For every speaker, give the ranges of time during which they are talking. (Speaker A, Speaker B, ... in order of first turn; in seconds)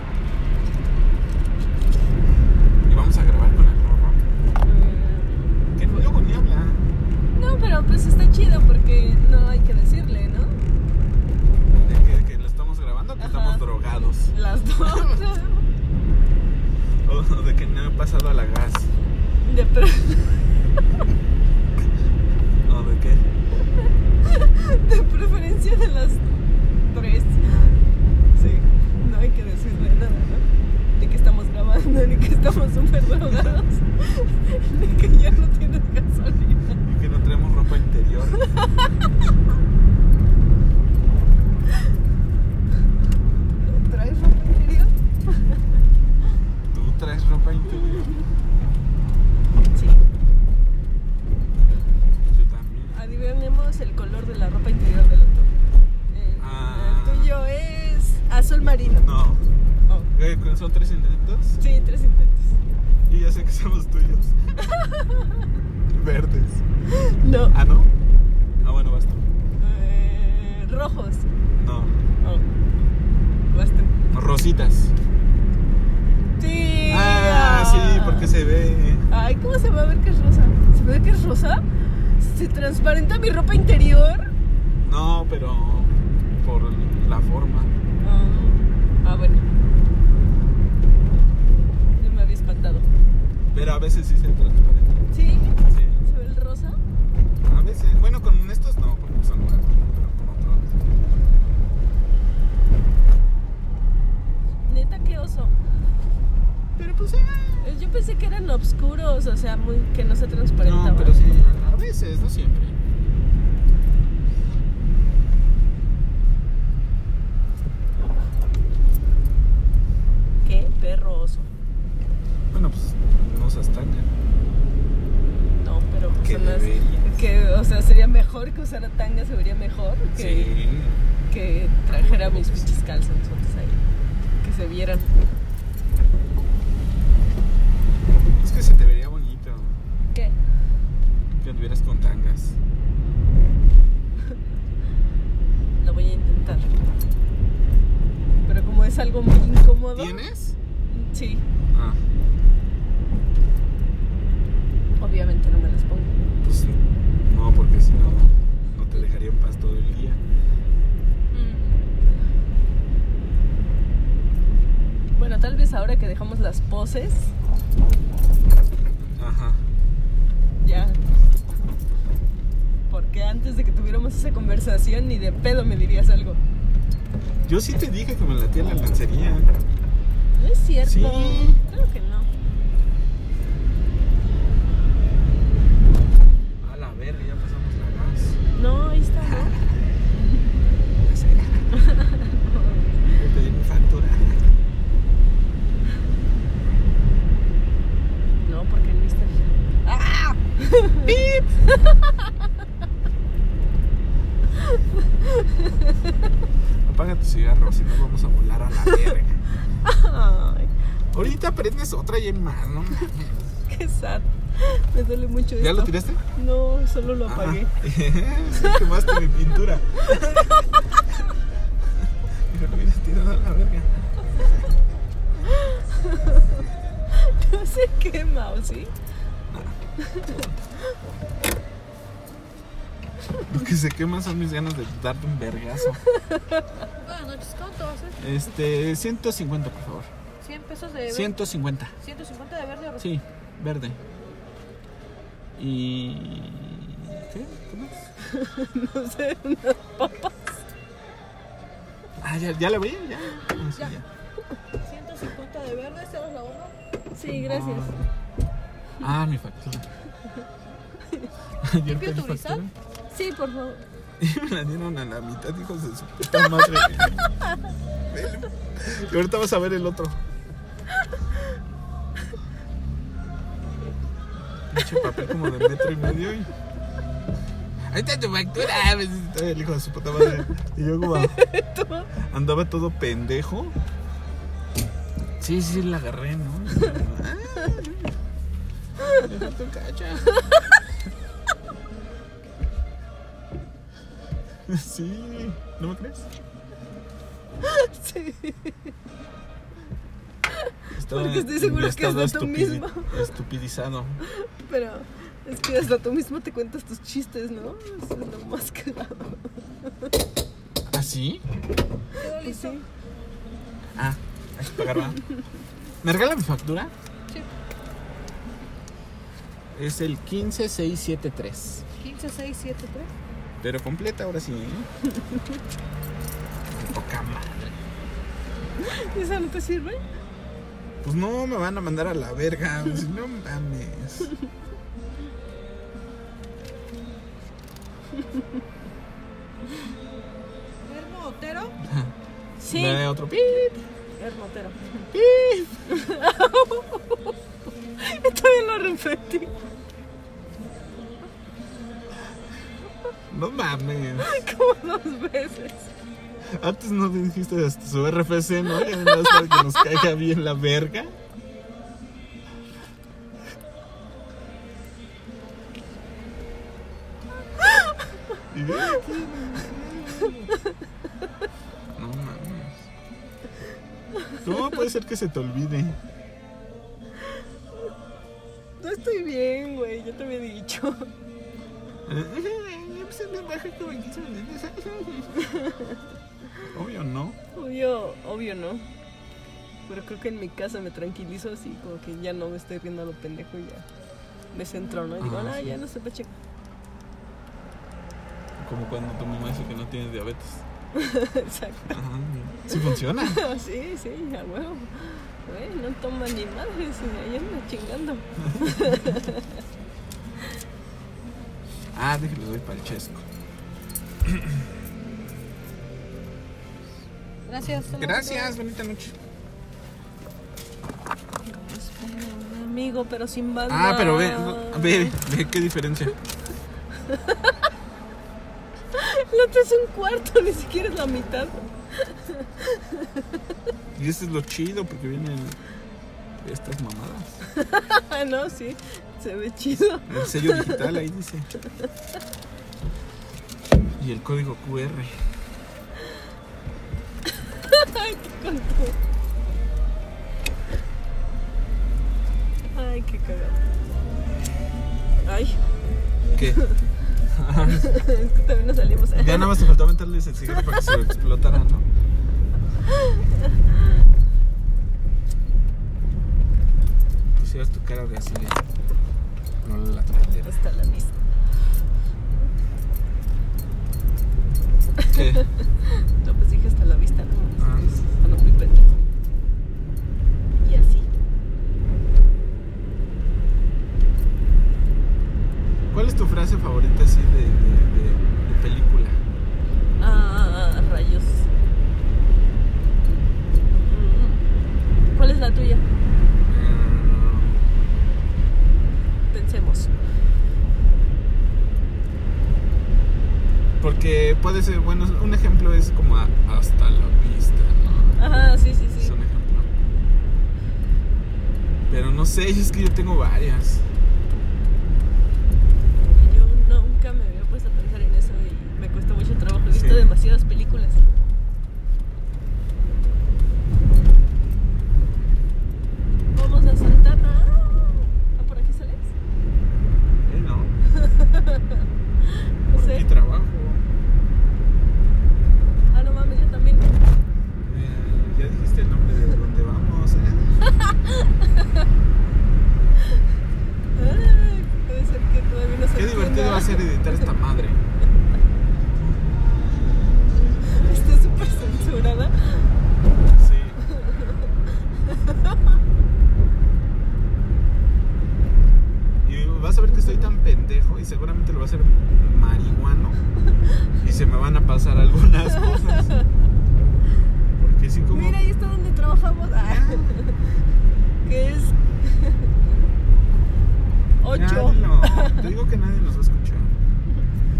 Speaker A: 2.8-4.2, 5.8-6.8, 11.8-15.2, 17.1-18.9, 22.6-23.2, 36.9-38.5, 46.7-48.1, 52.3-53.0, 56.4-57.3, 58.9-59.5, 60.1-61.6, 63.1-64.4, 65.9-66.6, 67.5-67.9, 68.6-69.3, 71.5-72.0, 74.1-74.9, 76.9-79.1, 84.8-87.7, 93.5-95.0, 95.6-96.0, 97.4-101.0, 106.8-107.7, 110.6-112.8, 122.5-124.1, 126.2-127.2, 130.2-131.1, 131.9-132.7, 138.4-139.8, 141.4-142.6, 149.9-150.6, 151.7-152.0, 156.4-160.2, 169.0-169.6, 177.5-179.5, 180.8-181.6, 186.6-188.4, 189.2-189.8, 191.0-191.7, 193.2-194.4, 201.1-201.5, 206.8-209.4, 211.1-213.4, 215.6-216.2, 217.3-220.7, 222.0-223.9, 229.5-229.8, 230.3-230.6, 233.5-236.0, 238.2-240.1, 241.1-241.9, 243.0-244.0, 245.6-248.0, 252.2-254.1, 257.3-258.1, 259.0-259.9, 261.6-262.7, 264.2-267.2, 268.1-270.2, 274.7-276.5, 277.9-281.4, 282.2-283.8, 285.4-288.1, 289.0-290.4, 294.7-296.3, 300.9-304.2, 310.9-311.4, 314.0-315.2, 316.0-316.9, 319.7-321.9, 323.6-324.9, 326.7-327.8, 331.0-334.3, 341.8-342.1, 342.7-343.8, 345.1-345.7, 353.3-354.4, 356.5-361.2, 368.5-370.5, 371.9-372.9, 374.4-376.0, 382.1-385.4, 386.7-387.4, 395.2-395.8, 398.6-400.7, 401.9-403.4, 408.4-409.1, 411.9-413.2, 414.2-414.6, 417.6-419.2, 423.7-426.2, 433.9-435.6, 436.4-437.4, 440.1-441.5, 444.0-445.1, 456.3-456.6, 457.3-457.9, 459.1-461.9, 467.3-468.6, 469.6-470.6, 475.1-475.4, 477.6-477.9, 485.9-489.2, 496.5-497.6, 503.8-508.4, 509.0-509.7, 511.9-513.9, 519.7-520.1, 530.2-530.7, 532.7-533.9, 537.6-540.6, 546.0-547.8, 553.3-553.8, 559.2-563.2, 564.0-566.1, 567.6-568.4, 569.6-570.1, 574.3-576.8
Speaker B: 4.6-5.7, 7.3-10.6, 13.2-15.7, 19.5-20.5, 24.2-26.3, 26.9-27.7, 28.4-36.8, 38.4-38.9, 43.6-45.6, 49.7-50.0, 52.9-55.5, 56.1-59.1, 61.6-62.6, 64.6-65.5, 66.9-67.5, 69.6-71.3, 72.2-72.5, 73.5-73.9, 76.4-78.3, 79.1-84.3, 88.0-89.5, 92.0-92.9, 95.1-96.8, 104.7-105.6, 107.6-111.2, 120.4-121.5, 125.6-130.5, 131.3-133.8, 134.4-135.1, 145.8-146.7, 148.5-150.2, 150.9-151.4, 155.0-156.1, 161.3-162.0, 165.2-167.3, 170.6-171.0, 172.9-176.4, 180.4-182.3, 188.6-189.6, 191.7-193.2, 198.4-202.3, 204.6-206.1, 209.8-210.7, 213.7-217.7, 218.5-218.9, 220.2-220.8, 225.4-228.9, 230.0-231.0, 236.0-236.9, 248.2-250.6, 257.1-258.0, 263.1-263.8, 275.0-275.8, 281.1-282.1, 297.6-298.9, 300.5-303.2, 304.2-310.1, 312.4-312.9, 325.2-325.6, 328.8-330.0, 342.6-343.1, 344.2-345.1, 345.9-347.3, 348.0-349.5, 354.2-355.9, 358.8-360.0, 367.6-368.0, 374.1-374.4, 378.8-381.1, 385.3-386.0, 387.6-388.9, 389.9-393.9, 394.5-396.3, 400.9-402.0, 402.7-409.6, 421.4-425.2, 427.0-427.6, 428.9-433.4, 437.5-441.0, 447.3-449.0, 452.7-453.6, 455.2-455.6, 456.5-456.8, 457.6-459.6, 460.6-460.9, 462.9-464.0, 470.3-471.2, 475.0-479.0, 480.6-481.1, 490.0-491.5, 493.9-494.5, 495.1-495.8, 499.3-499.9, 508.2-509.1, 516.1-521.0, 526.3-529.1, 530.9-533.1, 535.9-536.9, 540.7-541.9, 544.0-546.9, 550.6-552.7, 553.9-554.4, 555.0-555.8, 565.6-566.2, 568.1-570.5, 571.2-572.5, 574.2-575.5
Speaker C: 237.0-238.2, 240.4-241.4, 242.0-243.1, 254.8-256.7, 261.9-262.6, 312.2-312.8, 322.0-323.1, 340.8-341.8, 417.5-418.6